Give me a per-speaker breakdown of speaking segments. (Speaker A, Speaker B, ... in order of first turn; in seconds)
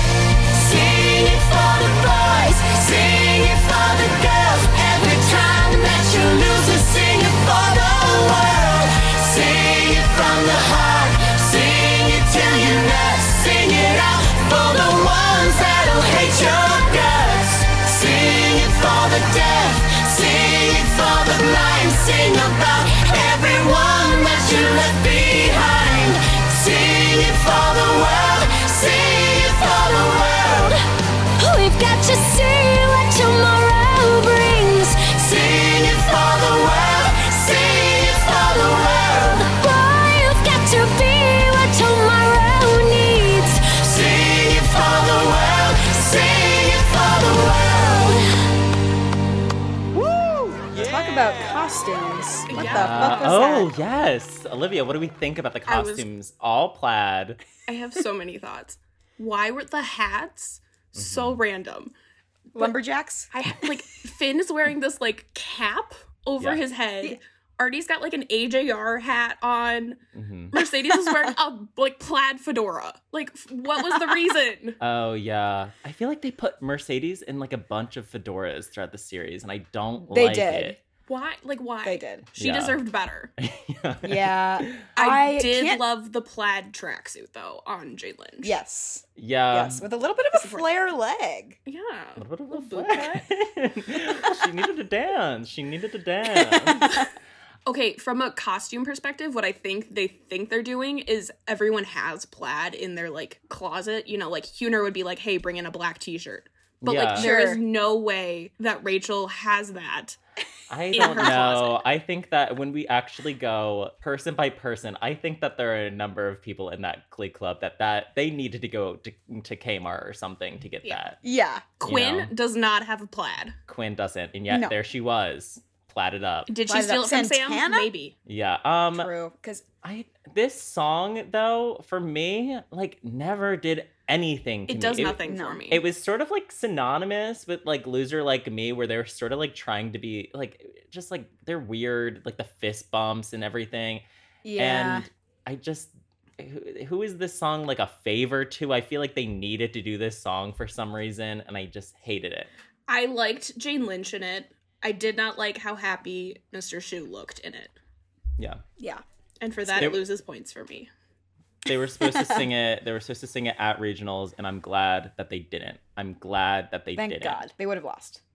Speaker A: 0.5-30.8, 31.4-32.0, 35.0-39.7, 43.6-48.2
Speaker B: 31.6-34.8, 39.6-43.5
Speaker C: 50.7-53.7, 62.5-63.3, 80.0-80.8, 81.8-82.2, 84.0-85.8, 88.4-91.6, 107.2-107.6, 121.2-121.6, 124.5-124.7, 126.7-127.9, 128.9-129.6, 135.2-135.6, 144.4-145.1, 162.1-162.4, 166.9-168.2
Speaker D: 52.5-53.5, 55.6-56.0, 57.7-61.9, 63.3-70.0, 70.5-74.8, 81.1-83.3, 85.0-88.6, 90.3-90.6, 91.7-93.3, 97.7-110.2, 110.9-111.8, 121.8-123.5, 126.5-128.2, 134.7-135.8, 152.9-157.8, 159.4-160.9
Speaker E: 52.5-57.4, 61.0-61.4, 70.1-70.5, 74.8-80.8, 82.4-82.8, 83.4-84.7, 89.2-89.8, 92.2-96.9, 106.8-107.3, 110.7-121.2, 121.8-122.3, 123.7-126.5, 128.2-129.1, 129.8-144.0, 144.6-152.5, 159.7-160.0, 161.7-167.4